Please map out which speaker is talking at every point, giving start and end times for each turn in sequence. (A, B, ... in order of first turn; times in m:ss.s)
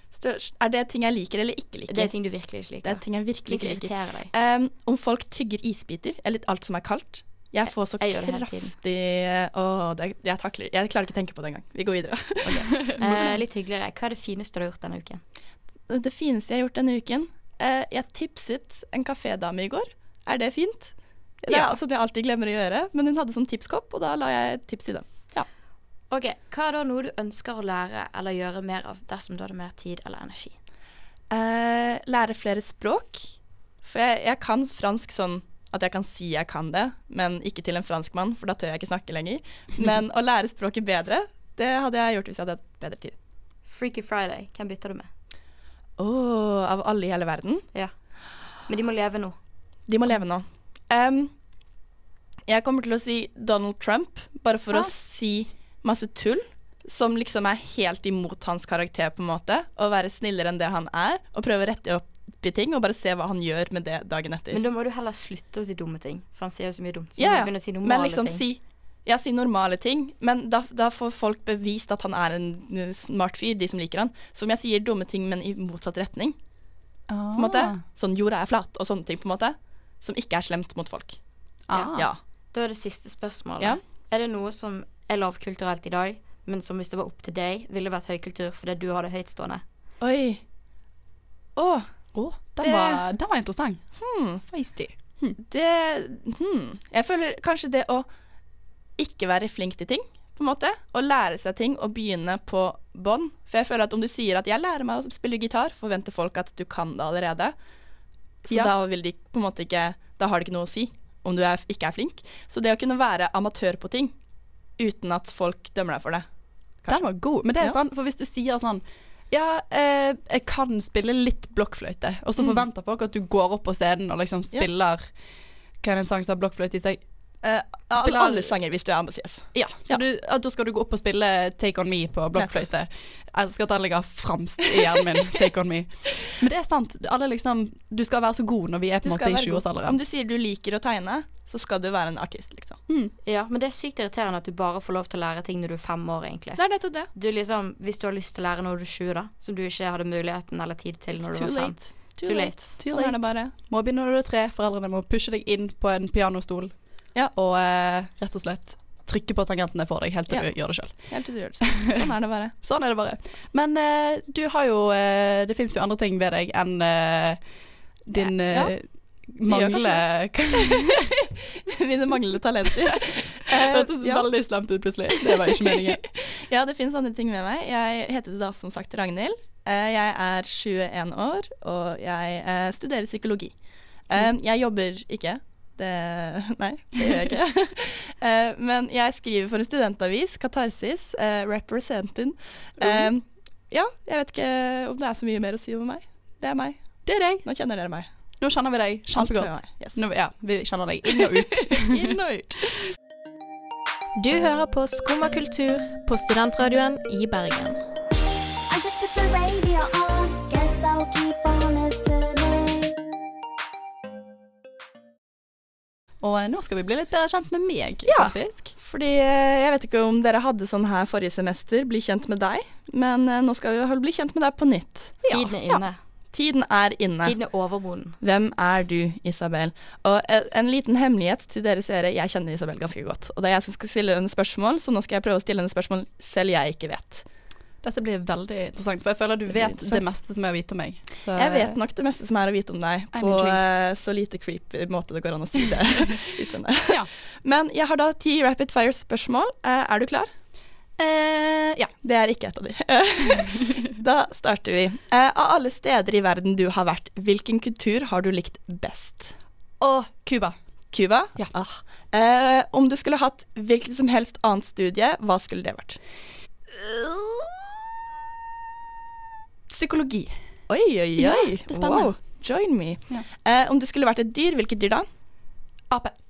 0:00.1-0:02.1 A
0:01.9-0:04.3 B
0:02.8-0:12.9 A
0:07.7-0:08.7 B
0:12.7-0:13.3 C
0:13.0-0:15.2 B
0:15.9-0:25.5 A
0:21.5-0:21.7 C
0:26.1-0:30.6 B
0:31.3-0:33.3 A
0:33.8-0:43.2 A
0:43.7-0:45.1 B
0:46.0-0:47.6 A
0:48.7-0:49.4 B
0:49.9-0:51.3 A
0:52.5-1:04.6 A
1:04.5-1:08.4 B
1:07.2-1:16.4 A
1:17.1-1:17.8 C
1:17.4-1:21.2 A
1:21.7-1:22.1 C
1:21.9-1:22.2 A
1:22.5-1:29.6 B
1:30.0-1:30.4 A
1:31.6-1:31.9 A
1:32.2-1:33.8 C
1:32.6-1:33.0 A
1:34.0-1:34.4 A
1:34.4-1:35.4 C
1:35.5-1:38.1 A
1:39.0-1:47.6 A
1:48.4-1:54.1 A
1:54.8-1:56.3 A
1:56.8-1:57.8 A
1:56.9-2:05.1 C
2:05.8-2:07.0 C
2:07.4-2:10.0 A
2:08.0-2:08.5 C
2:09.5-2:20.0 C
2:12.4-2:12.6 A
2:19.0-2:22.8 A
2:22.9-2:23.1 C
2:23.2-2:26.6 B
2:26.6-2:27.1 A
2:27.2-2:32.8 B
2:31.2-2:33.5 A
2:32.8-2:36.8 C
2:37.3-2:41.1 C
2:40.3-2:42.5 A
2:42.6-2:47.4 C
2:48.1-2:51.0 C
2:48.2-2:48.8 A
2:49.5-2:50.0 A
2:50.6-2:50.8 A
2:51.7-2:54.3 A
2:52.8-2:56.0 C
2:55.3-3:03.5 A
3:04.1-3:16.8 A
3:12.8-3:13.1 C
3:17.0-3:17.4 C
3:17.4-3:18.1 A
3:18.4-3:22.0 C
3:19.2-3:20.0 A
3:21.2-3:22.7 A
3:24.2-3:27.8 D
3:28.7-3:33.0 E
3:36.2-3:38.7 C
3:38.1-3:45.8 A
3:45.2-3:45.5 C
3:45.3-3:46.0 B
3:46.3-3:47.4 A
3:47.2-3:48.2 B
3:48.2-3:57.2 A
3:57.8-4:01.8 C
3:59.5-4:00.1 A
4:01.4-4:10.3 A
4:03.1-4:03.6 C
4:11.0-4:11.9 C
4:12.0-4:19.3 A
4:19.8-4:20.6 C
4:20.9-4:26.0 A
4:26.8-4:27.5 A
4:29.7-4:30.4 C
4:30.7-4:35.1 A
4:31.2-4:32.1 C